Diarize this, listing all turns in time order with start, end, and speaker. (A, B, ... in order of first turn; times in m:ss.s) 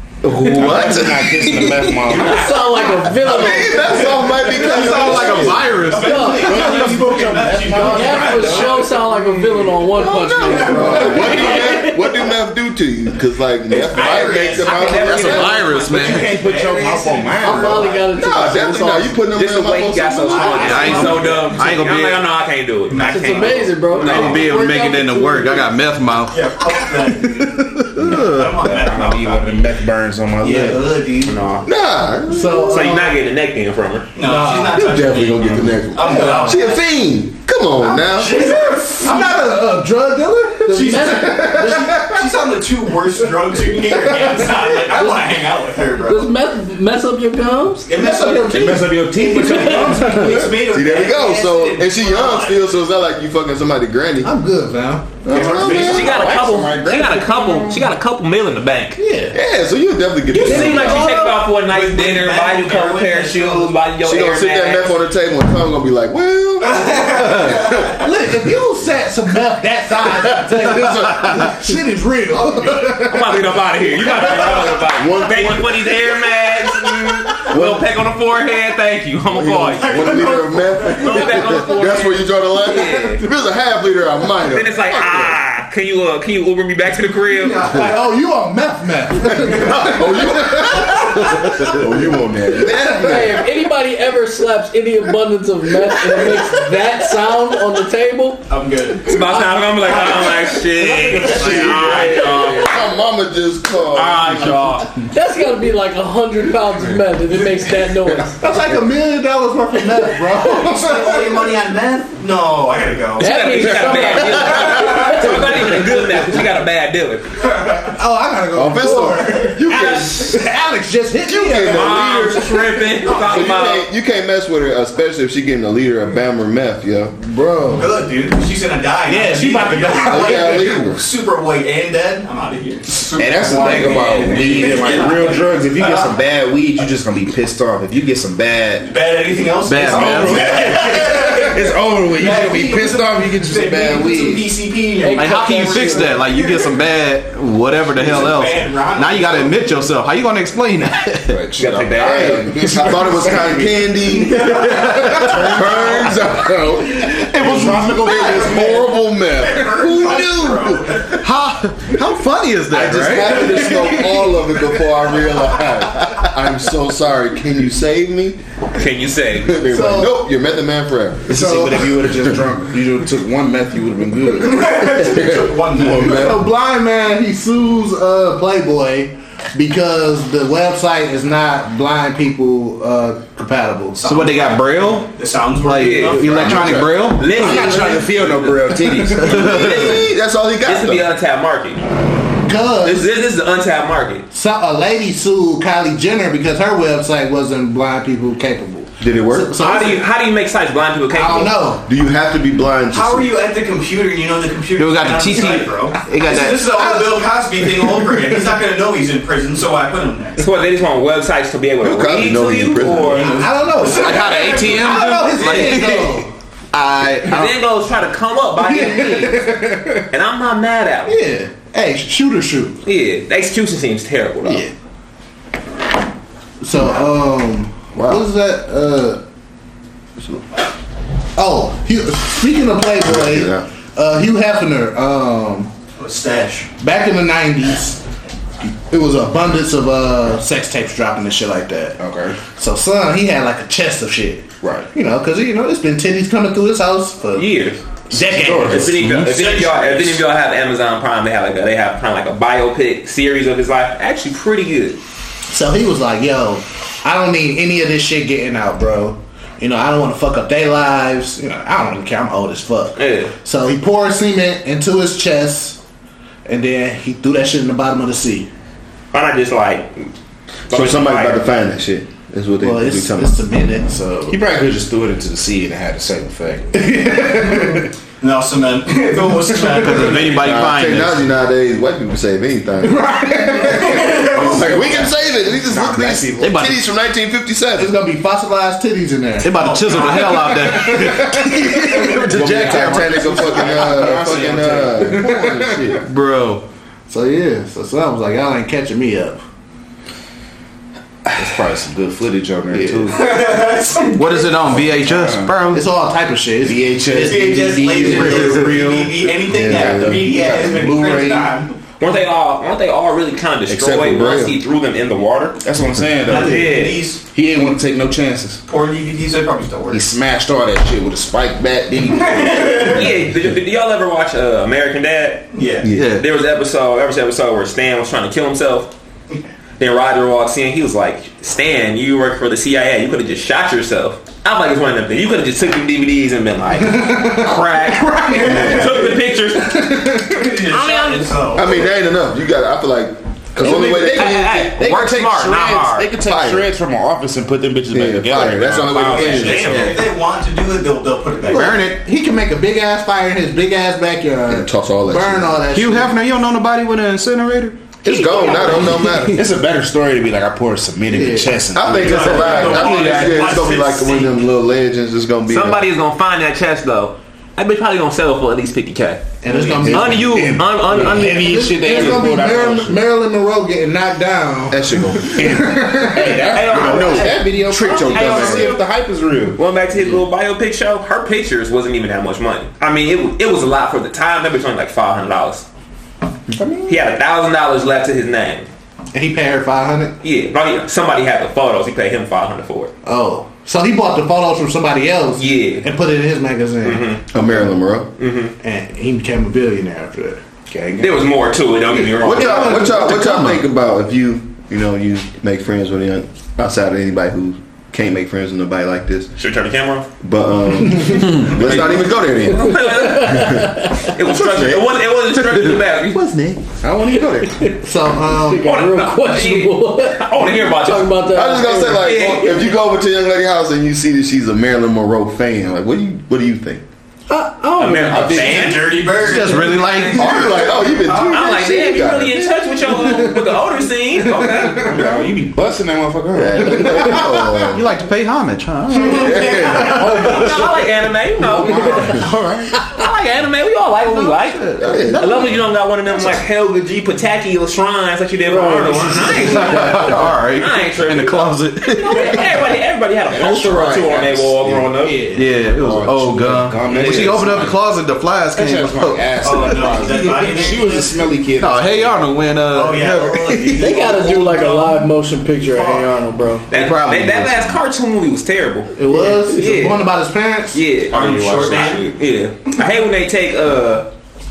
0:00.2-0:02.4 A
0:00.4-0:01.1 B
0:00.6-0:00.8 C
0:02.1-0:02.8 D
0:02.2-0:04.0 E
0:02.9-0:05.9 B
0:03.4-0:09.0 D
0:04.7-0:06.1 C
0:05.0-0:08.6 A
0:05.9-0:06.6 E
0:06.5-0:07.0 B
0:07.8-0:12.2 E
0:10.0-0:15.6 B
0:10.4-0:11.5 D
0:13.7-0:18.0 D
0:13.8-0:16.2 F
0:14.8-0:18.0 A
0:15.2-0:16.3 C
0:17.4-0:19.2 E
0:18.1-0:21.4 B
0:19.3-0:24.5 F
0:20.4-0:21.4 D
0:20.6-0:22.2 C
0:22.9-0:23.7 D
0:23.0-0:25.7 E
0:24.0-0:26.5 C
0:26.3-0:29.7 D
0:28.0-0:28.6 C
0:28.0-0:31.0 A
0:28.6-0:29.4 F
0:30.4-0:31.4 D
0:31.2-0:31.7 F
0:31.6-0:32.8 B
0:32.3-0:33.2 G
0:32.7-0:34.1 F
0:34.2-0:36.8 D
0:34.2-0:34.9 G
0:34.7-0:38.6 B
0:36.0-0:36.7 G
0:37.8-0:39.3 D
0:38.2-0:42.3 G
0:40.7-0:46.3 D
0:40.8-0:42.0 E
0:46.0-0:47.9 E
0:47.9-0:52.7 D
0:47.9-0:50.4 G
0:48.5-0:50.1 A
0:49.4-0:50.1 E
0:50.1-0:54.4 B
0:54.2-0:55.2 G
0:55.2-0:56.3 B
0:55.3-0:55.9 D
0:55.4-0:57.8 A
0:55.7-0:59.0 F
0:59.0-0:59.4 G
0:59.3-1:01.3 B
1:00.3-1:03.8 D
1:00.3-1:04.9 F
1:04.0-1:07.8 B
1:06.6-1:07.9 D
1:07.9-1:13.5 G
1:10.1-1:11.7 B
1:13.1-1:20.3 F
1:14.2-1:16.0 B
1:14.2-1:14.7 G
1:17.3-1:17.9 B
1:19.3-1:25.4 B
1:19.8-1:21.3 D
1:21.0-1:23.2 F
1:24.5-1:27.7 F
1:27.4-1:31.8 G
1:29.4-1:33.6 B
1:33.0-1:38.4 E
1:38.5-1:39.2 D
1:39.1-1:42.8 F
1:41.2-1:44.7 B
1:41.4-1:42.1 D
1:43.9-1:44.9 F
1:45.1-1:48.4 E
1:48.4-1:51.4 G
1:50.4-1:53.9 D
1:53.2-1:55.4 E
1:53.2-1:57.4 F
1:54.6-1:55.2 B
1:57.6-2:02.2 G
1:58.6-2:00.4 B
1:59.7-2:00.4 F
2:01.2-2:07.2 B
2:01.7-2:03.9 F
2:03.1-2:03.6 D
2:07.2-2:07.9 G
2:07.8-2:16.1 D
2:09.1-2:10.8 G
2:10.0-2:11.1 B
2:13.2-2:18.9 A
2:18.8-2:21.6 D
2:19.7-2:20.4 C
2:19.7-2:24.5 A
2:22.1-2:26.7 D
2:25.0-2:26.1 E
2:25.2-2:31.4 C
2:28.0-2:29.5 D
2:31.3-2:33.7 A
2:31.6-2:32.5 F
2:32.0-2:36.6 B
2:34.3-2:35.1 D
2:34.4-2:39.8 A
2:37.3-2:38.3 C
2:37.4-2:41.1 B
2:38.1-2:41.2 D
2:41.2-2:44.4 C
2:42.7-2:48.4 B
2:48.8-2:49.6 F
2:49.4-2:51.6 B
2:49.6-2:50.2 G
2:51.3-2:56.2 A
2:51.4-2:53.0 C
2:54.3-2:56.3 D
2:56.0-3:04.1 G
3:04.0-3:04.4 D
3:04.0-3:07.7 C
3:05.1-3:06.8 D
3:05.8-3:10.1 F
3:06.3-3:07.1 B
3:06.6-3:09.5 A
3:07.4-3:08.0 G
3:09.2-3:11.1 B
3:10.6-3:11.8 F
3:12.4-3:13.1 G
3:12.8-3:14.3 F
3:14.3-3:20.0 G
3:19.0-3:19.6 B
3:19.6-3:21.6 F
3:21.1-3:21.8 G
3:21.7-3:23.3 B
3:22.9-3:30.4 D
3:24.8-3:26.6 C
3:25.3-3:25.6 A
3:30.4-3:33.3 F
3:31.8-3:33.4 B
3:33.1-3:34.7 D
3:33.2-3:36.3 G
3:34.0-3:36.0 C
3:34.2-3:36.2 A
3:36.7-3:37.5 C
3:36.8-3:37.0 A
3:37.2-3:39.5 F
3:38.6-3:40.0 G
3:40.1-3:41.2 F
3:41.1-3:42.8 G
3:42.8-3:44.7 F
3:44.5-3:44.7 G
3:46.6-3:49.2 G
3:48.0-3:48.3 B
3:51.4-3:55.7 G
3:53.0-3:53.7 B
3:56.0-3:56.7 D
3:56.8-3:58.0 G
3:58.6-4:02.0 G
4:02.0-4:02.4 A
4:02.5-4:08.9 G
4:04.6-4:04.9 A
4:07.3-4:07.8 F
4:08.3-4:09.2 A
4:08.7-4:15.0 F
4:09.2-4:10.2 D
4:15.5-4:25.8 G
4:23.0-4:23.3 F
4:26.5-4:28.5 G
4:29.1-4:30.1 F
4:30.7-4:31.5 F
4:30.7-4:33.4 B
4:32.6-4:34.4 G
4:34.3-4:37.8 A
4:38.2-4:40.5 D
4:39.8-4:41.3 C
4:40.3-4:43.1 B
4:42.8-4:44.2 G
4:43.9-4:46.6 A
4:44.0-4:44.6 D
4:44.1-4:47.9 B
4:46.4-4:46.8 C
4:47.8-4:49.9 G
4:49.4-4:53.8 C
4:49.5-4:50.8 D
4:52.3-4:56.0 B
4:52.4-4:55.8 A
4:55.1-4:56.0 G
4:56.1-4:56.6 C
4:57.1-4:59.4 G
5:01.3-5:03.3 A
5:02.7-5:03.3 G
5:03.1-5:04.4 D
5:04.1-5:05.9 C
5:04.7-5:05.6 A
5:05.7-5:08.8 G
5:06.6-5:11.5 A
5:07.2-5:11.8 D
5:08.8-5:09.2 C
5:09.4-5:11.4 B
5:12.0-5:15.6 F
5:13.7-5:14.6 B
5:15.6-5:18.6 A
5:16.2-5:17.2 D
5:16.3-5:17.0 F
5:18.7-5:20.1 D
5:19.9-5:23.1 A
5:22.1-5:23.0 D
5:22.9-5:25.5 F
5:25.5-5:25.9 D
5:25.9-5:26.3 C
5:26.0-5:28.9 F
5:29.8-5:40.0 F
5:36.7-5:40.4 G
5:38.2-5:39.2 D
5:40.4-5:41.7 D
5:40.7-5:41.4 F
5:41.6-5:44.7 B
5:43.6-5:49.6 A
5:43.6-5:46.1 F
5:46.2-5:46.7 B
5:47.9-5:49.9 B
5:48.5-5:50.0 F
5:49.0-5:51.8 D
5:49.6-5:50.0 C
5:51.5-5:52.0 C
5:51.5-5:56.2 G
5:54.5-5:55.6 B
5:55.7-5:57.8 C
5:58.0-5:59.4 B
5:58.1-5:59.0 F
5:59.4-6:02.8 A
6:01.1-6:01.6 G
6:01.7-6:05.9 B
6:01.9-6:04.4 D
6:02.8-6:03.5 F
6:05.5-6:11.6 F
6:09.4-6:16.6 G
6:09.8-6:10.6 B
6:09.9-6:13.0 A
6:14.7-6:15.6 B
6:15.2-6:19.6 A
6:16.5-6:18.8 F
6:16.7-6:18.7 B
6:19.6-6:25.7 F
6:26.5-6:26.9 A
6:26.9-6:28.7 F
6:29.1-6:30.2 G
6:30.2-6:32.9 F
6:33.0-6:37.1 G
6:35.4-6:35.8 F
6:36.8-6:37.2 F
6:37.3-6:38.1 B
6:38.2-6:38.5 F
6:38.6-6:41.1 G
6:41.0-6:42.9 F
6:41.9-6:43.5 G
6:42.2-6:49.3 B
6:49.4-6:50.1 F
6:50.2-6:55.0 B
6:51.3-6:56.3 F
6:52.8-6:54.1 E
6:56.1-6:56.6 B
6:56.8-6:57.6 A
6:57.2-7:00.3 E
6:57.8-6:58.7 G
6:58.6-7:01.2 F
7:00.8-7:02.2 E
7:01.3-7:06.8 B
7:01.9-7:02.7 F
7:07.3-7:08.5 E
7:07.8-7:09.2 F
7:08.2-7:08.7 A
7:08.2-7:10.3 D
7:09.2-7:10.4 C
7:10.1-7:12.6 B
7:11.1-7:15.1 F
7:14.8-7:17.2 A
7:16.3-7:17.8 B
7:17.1-7:19.6 C
7:18.9-7:20.4 D
7:19.2-7:20.1 B
7:19.8-7:20.4 A
7:20.2-7:22.2 F
7:21.8-7:22.7 A
7:22.8-7:35.3 F
7:24.0-7:25.4 C
7:24.8-7:25.6 B
7:28.5-7:29.8 E
7:29.2-7:32.4 C
7:33.3-7:34.8 B
7:35.0-7:35.4 G
7:35.3-7:39.6 C
7:35.6-7:37.8 A
7:36.9-7:37.3 F
7:38.5-7:42.3 A
7:39.4-7:41.2 D
7:41.6-7:43.9 C
7:42.7-7:44.9 D
7:43.8-7:46.7 E
7:46.7-7:47.8 C
7:46.7-7:49.0 F
7:49.0-7:50.8 G
7:49.5-7:50.0 F
7:50.7-7:54.1 F
7:51.1-7:52.1 D
7:51.5-7:51.9 A